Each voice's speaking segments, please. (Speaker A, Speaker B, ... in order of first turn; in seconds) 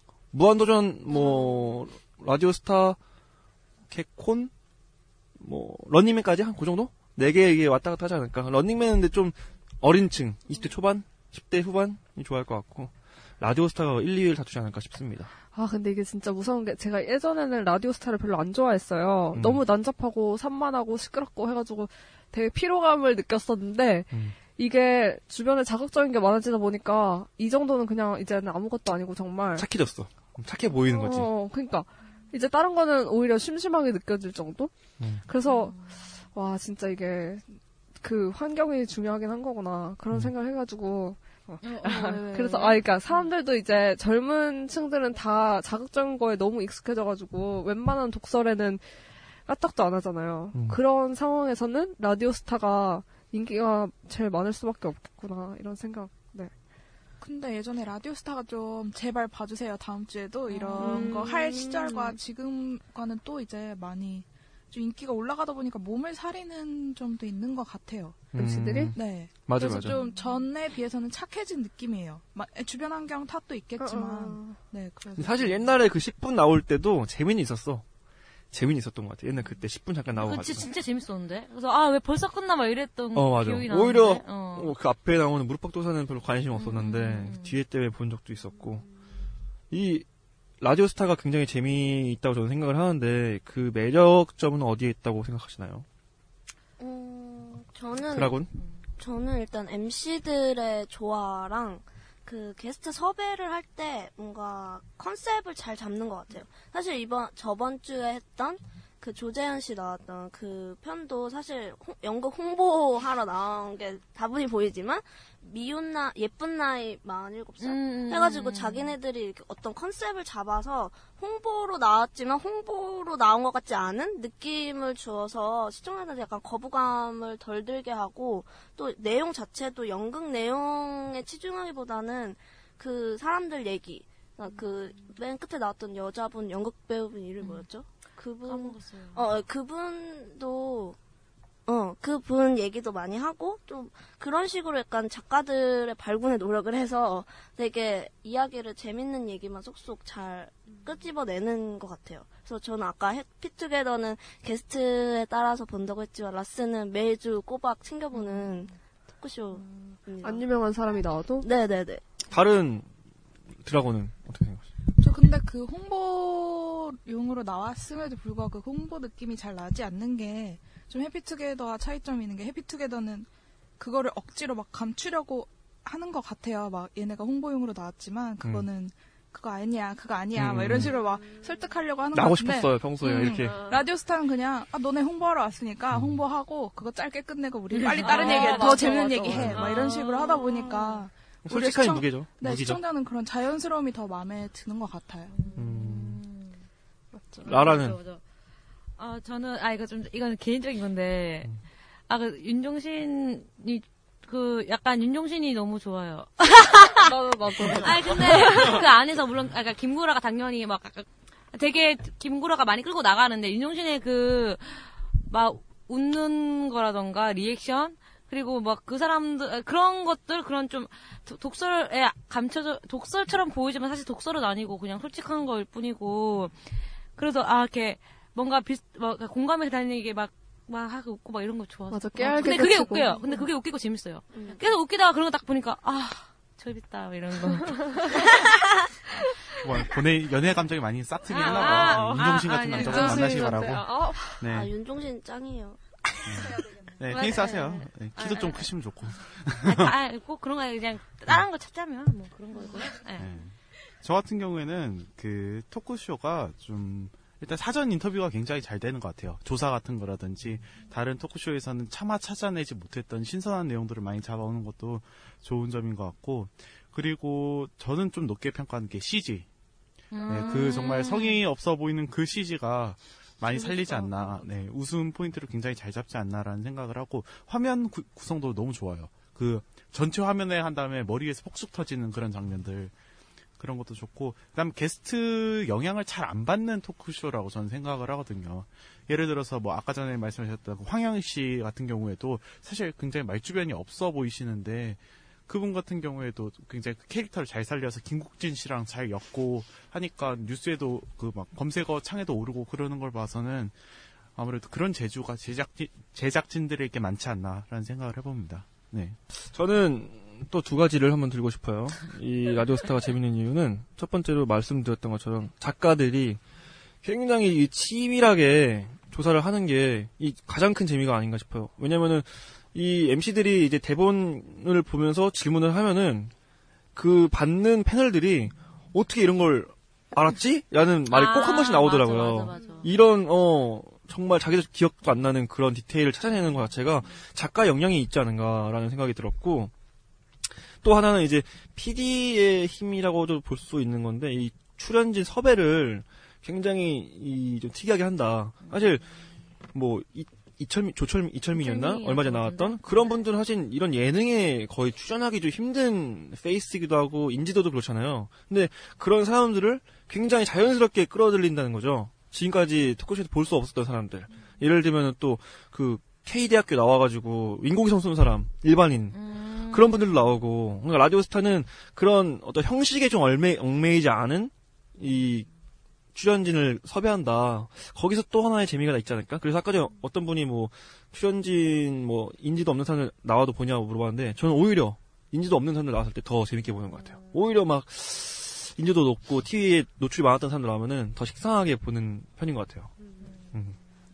Speaker A: 0.3-3.0, 3.9-4.5, 5.4-15.3, 19.3-19.6, 29.6-31.3, 50.5-50.8, 68.3-70.0, 75.2-77.8, 78.5-80.7, 83.2-88.8, 89.7-90.1, 90.6-95.9, 98.1-98.5, 162.3-162.9, 163.7-164.7, 178.4-178.7, 180.3-180.9, 182.1-183.7, 185.9-186.2, 187.8-188.4, 189.2-189.8, 191.4-192.8, 195.6-196.2, 197.5-198.0, 309.5-316.4, 317.0-326.3, 326.9-339.7, 340.8-349.1, 349.7-375.5, 376.1-392.9
Speaker B: 1.1-1.7, 15.5-29.7, 30.9-34.7, 35.3-35.8, 36.3-37.5, 38.0-56.5, 60.8-62.2, 68.3-69.0, 73.8-74.6, 159.9-161.5, 188.0-188.9, 197.2-197.5, 207.0-208.8, 231.9-233.4, 242.8-244.3
Speaker C: 35.5-36.1, 41.6-43.3, 60.6-61.0, 80.2-84.7, 86.5-87.6, 117.6-118.9, 137.4-137.7, 138.4-139.2, 187.7-191.0, 195.3-196.6, 197.4-198.2, 199.0-201.5, 202.1-238.4, 241.3-244.3, 247.0-248.7, 249.6-253.3, 270.1-271.4, 273.5-274.4, 331.1-332.9, 351.5-353.3, 369.1-370.1, 387.0-387.3
Speaker D: 42.4-42.7, 57.2-68.3, 69.0-75.6, 165.0-195.3
Speaker E: 96.8-98.4, 99.0-141.0, 141.7-160.5, 161.4-162.0, 234.3-234.6, 244.4-246.6
Speaker F: 239.6-244.7, 246.2-249.9, 253.2-269.5, 270.2-282.9, 283.6-303.8, 304.4-309.2